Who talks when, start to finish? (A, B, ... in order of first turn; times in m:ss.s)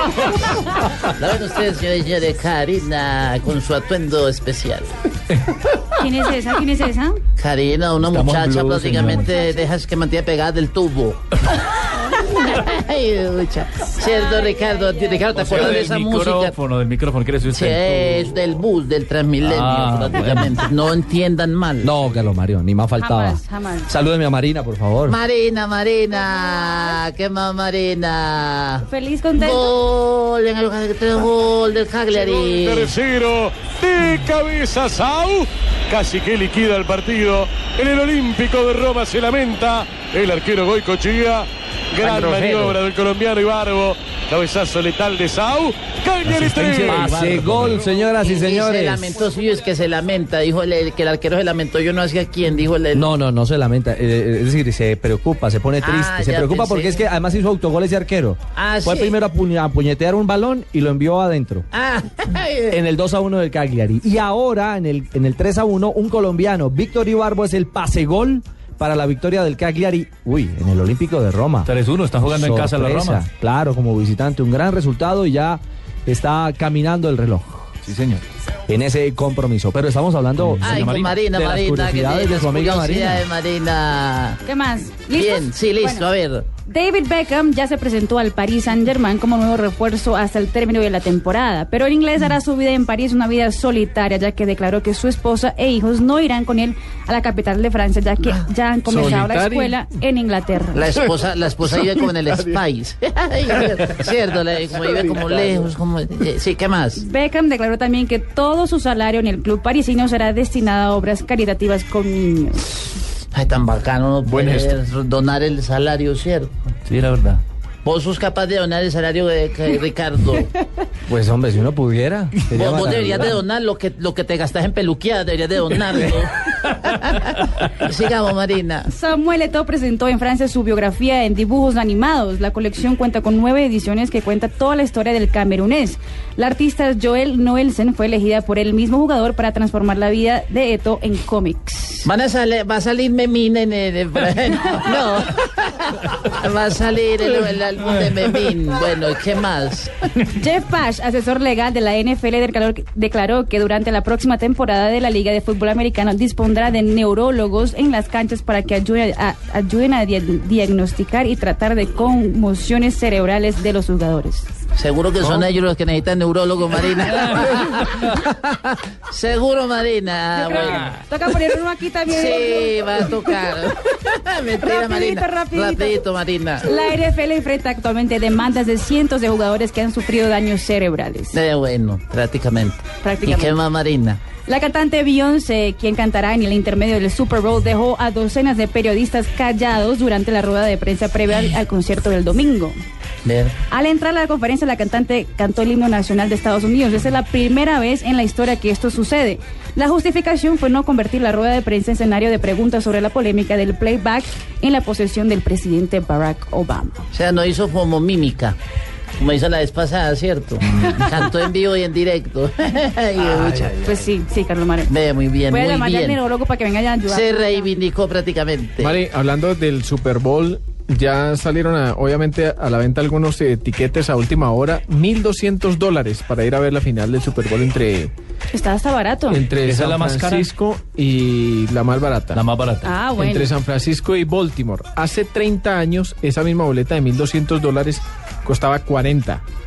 0:01.0-0:04.9 A
0:05.9-0:07.2 B
0:07.4-0:11.2 A
0:08.0-0:09.2 C
0:12.1-0:16.6 A
0:15.3-0:18.2 C
0:17.5-0:21.9 A
0:19.4-0:20.5 C
0:21.8-0:25.2 D
0:23.0-0:23.9 B
0:25.1-0:28.8 A
0:28.8-0:29.7 B
0:29.4-0:32.9 A
0:32.3-0:47.2 E
0:42.0-0:42.8 C
0:46.3-0:47.9 C
0:46.7-0:49.0 D
0:48.2-0:53.1 A
0:52.9-1:01.7 D
0:55.8-0:57.0 A
0:58.6-0:59.2 A
1:01.7-1:02.8 A
1:02.7-1:11.7 D
1:11.6-1:13.2 C
1:12.2-1:17.7 D
1:17.8-1:18.2 C
1:18.7-1:23.2 D
1:20.4-1:21.3 C
1:20.6-1:24.4 A
1:24.4-1:26.0 B
1:25.2-1:26.4 A
1:26.6-1:40.9 B
1:38.9-1:39.8 F
1:40.7-1:47.0 A
1:47.0-1:52.9 B
1:53.3-1:56.5 A
1:54.3-1:54.8 F
1:56.9-1:57.4 C
1:57.8-2:00.5 A
2:01.1-2:03.3 D
2:02.5-2:08.9 A
2:08.9-2:22.1 B
2:22.0-2:29.9 A
2:30.2-2:44.5 B
2:44.8-2:50.9 A
2:50.4-2:53.1 B
2:52.1-2:56.7 A
2:54.6-2:56.0 B
2:56.6-3:01.4 B
3:01.3-3:04.2 A
3:03.0-3:03.6 B
3:04.4-3:12.8 B
3:13.2-3:13.5 A
3:13.7-3:27.0 B
3:27.1-3:28.6 A
3:29.2-3:33.7 A
3:33.8-3:34.9 B
3:34.9-3:36.2 A
3:35.5-3:37.7 B
3:37.1-3:39.0 A
3:38.8-3:48.1 F
3:48.5-3:49.4 B
3:49.3-3:52.4 F
3:49.6-3:50.5 C
3:52.3-3:52.9 C
3:52.8-3:53.5 B
3:53.0-3:59.4 F